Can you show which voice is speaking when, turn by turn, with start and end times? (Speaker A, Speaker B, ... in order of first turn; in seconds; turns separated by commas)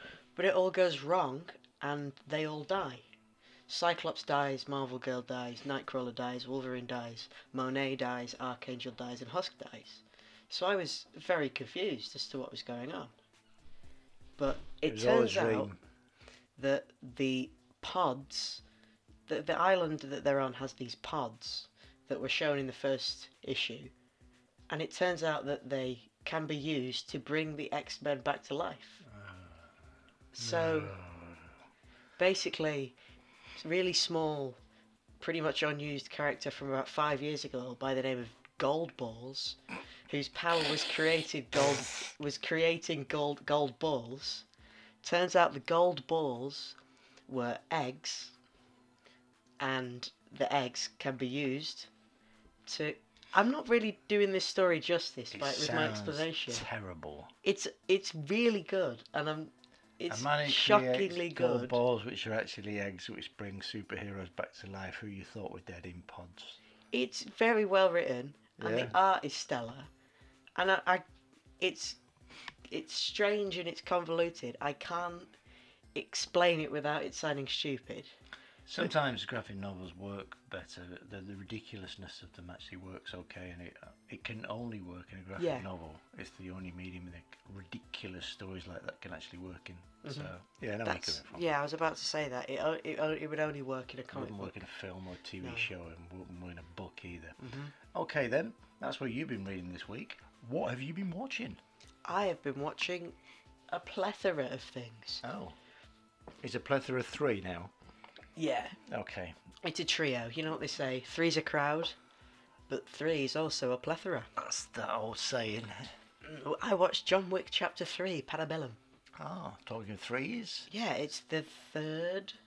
Speaker A: 0.4-3.0, Speaker A: 3.7-13.1, Speaker A: 14.4-15.7, Speaker B: 14.8-15.8, Speaker A: 16.6-18.6, Speaker A: 19.3-23.9, Speaker A: 24.7-29.0, Speaker B: 29.1-29.8, Speaker A: 30.3-31.0, Speaker B: 30.4-31.6, Speaker A: 32.2-33.0, Speaker A: 33.6-34.6, Speaker A: 35.2-44.5, Speaker A: 45.0-46.8, Speaker A: 47.3-48.3, Speaker A: 49.6-51.9, Speaker A: 52.7-56.7, Speaker B: 55.3-57.3, Speaker A: 57.4-61.8, Speaker B: 60.1-66.6, Speaker A: 66.9-69.9, Speaker B: 68.6-69.0, Speaker A: 70.6-71.0, Speaker A: 71.6-72.0, Speaker A: 72.7-75.3, Speaker A: 75.9-78.1, Speaker B: 78.7-91.5, Speaker A: 85.4-85.7, Speaker A: 90.0-90.3, Speaker A: 90.8-94.6, Speaker B: 94.1-101.6, Speaker A: 95.4-95.7, Speaker A: 97.4-97.8, Speaker A: 102.1-103.2, Speaker A: 103.7-105.2, Speaker B: 105.2-105.6, Speaker B: 106.4-107.7, Speaker A: 108.4-108.8, Speaker B: 108.8-109.4, Speaker A: 109.6-112.0, Speaker A: 112.7-114.3, Speaker B: 114.4-116.0, Speaker A: 116.2-118.8, Speaker B: 119.2-120.7, Speaker A: 120.7-122.4